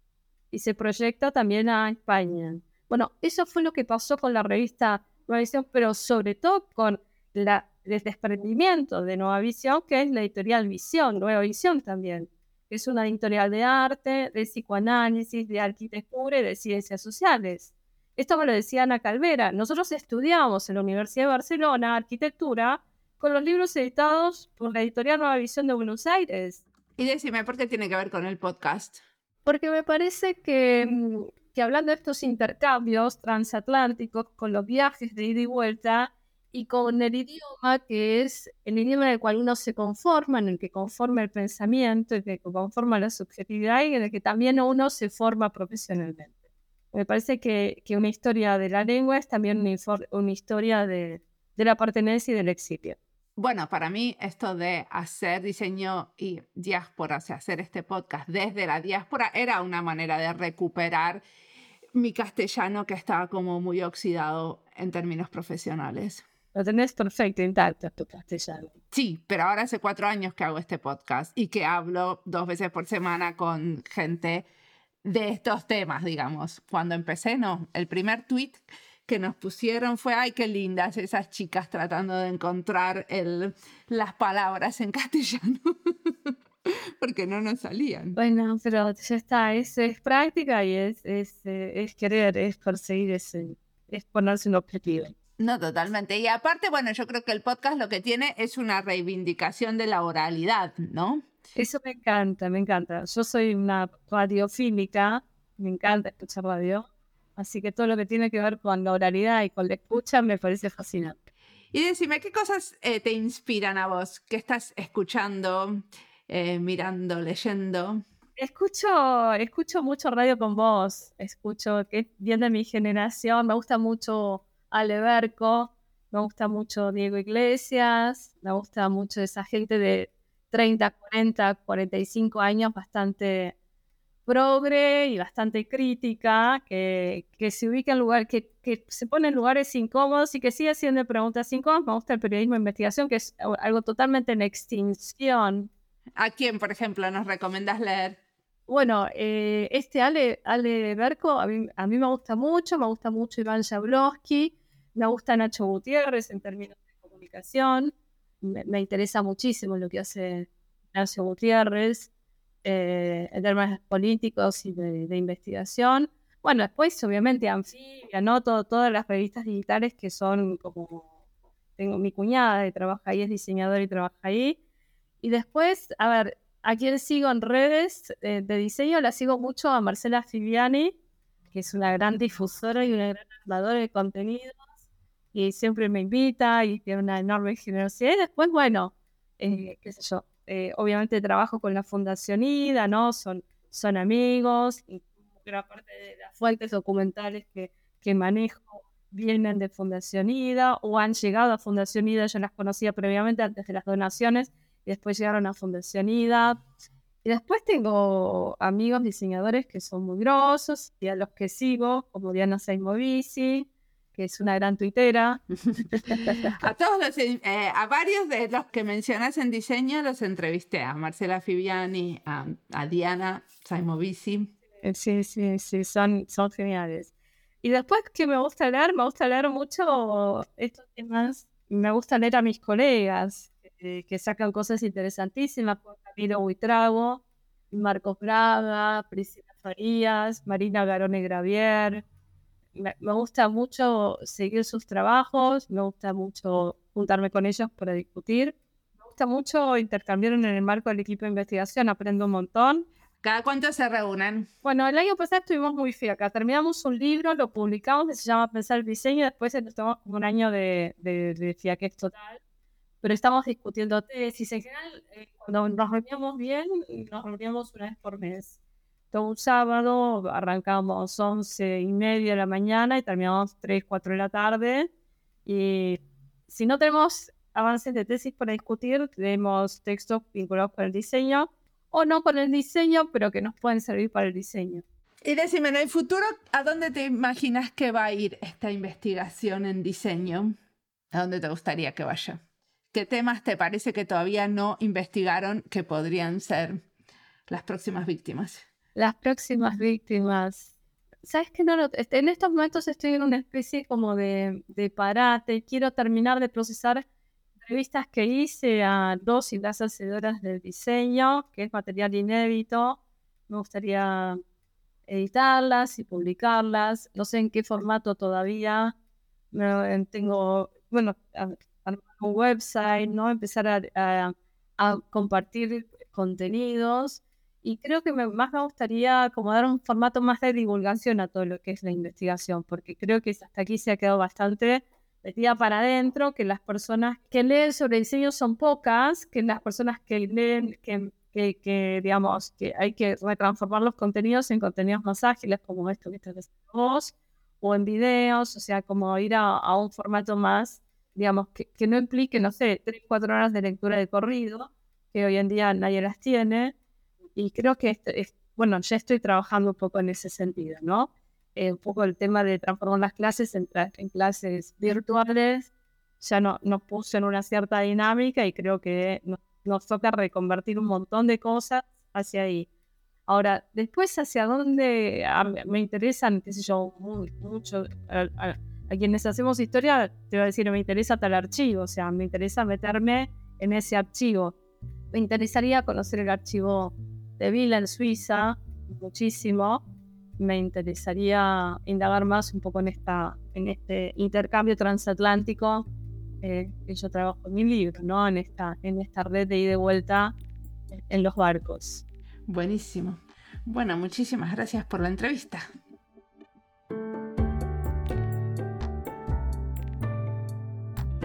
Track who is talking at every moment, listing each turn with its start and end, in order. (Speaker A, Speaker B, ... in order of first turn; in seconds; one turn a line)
Speaker A: 0.5-26.6
Speaker B: 27.0-29.0
Speaker A: 29.4-46.4
Speaker A: 46.9-53.0
Speaker B: 53.4-61.2
Speaker B: 61.9-66.2
Speaker A: 66.5-68.7
Speaker B: 68.9-74.5
Speaker B: 75.0-88.2
Speaker A: 88.2-95.1
Speaker B: 95.4-101.2
Speaker A: 101.5-106.8
Speaker A: 107.4-111.2
Speaker B: 111.7-118.0
Speaker A: 118.4-133.5
Speaker A: 134.2-145.7
Speaker B: 146.2-148.2
Speaker A: 148.7-162.1
Speaker A: 162.6-171.1
Speaker A: 171.8-174.6
Speaker A: 175.2-180.9
Speaker A: 181.5-184.6
Speaker A: 185.3-206.6
Speaker A: 207.2-216.6
Speaker B: 216.3-224.5
Speaker A: 224.8-227.1
Speaker A: 227.6-242.0
Speaker A: 242.7-252.8
Speaker B: 253.2-254.5
Speaker A: 254.6-262.4
Speaker A: 263.0-268.5
Speaker A: 269.1-274.9
Speaker A: 275.4-284.8
Speaker B: 285.2-290.5
Speaker B: 291.1-292.4
Speaker B: 292.9-296.8
Speaker B: 297.5-298.6
Speaker A: 298.9-307.0
Speaker A: 307.6-313.0
Speaker A: 313.5-314.4
Speaker A: 315.1-318.9
Speaker A: 319.5-356.7
Speaker A: 357.4-365.7
Speaker A: 366.2-372.7
Speaker A: 373.3-384.5
Speaker A: 385.1-389.8
Speaker A: 390.4-395.9
Speaker A: 396.4-400.3
Speaker A: 400.9-402.0
Speaker B: 402.5-405.6